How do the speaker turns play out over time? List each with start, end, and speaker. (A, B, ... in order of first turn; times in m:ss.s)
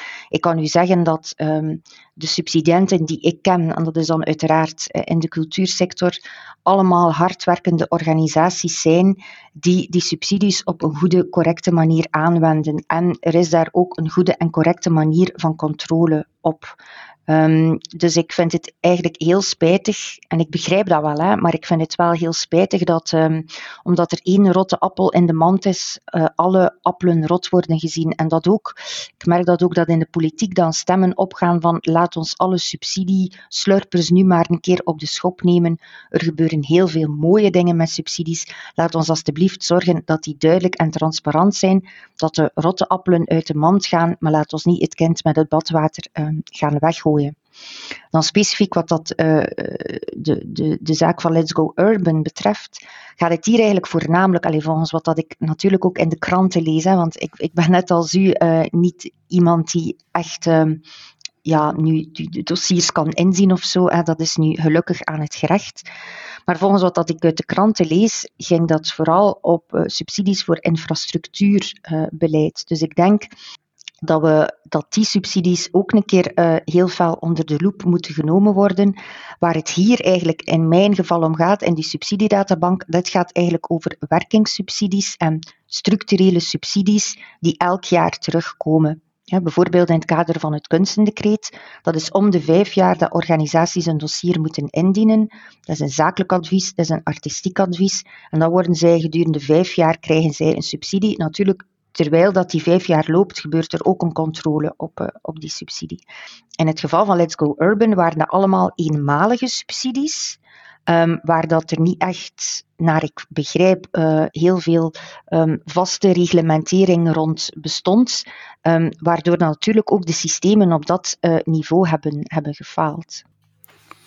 0:00.3-0:16.8 A
0:17.3-0:47.4 A
0:48.1-1:00.8 A
1:01.4-1:05.8 A
1:06.5-1:13.3 A
1:14.0-1:46.0 A
1:46.6-2:03.2 A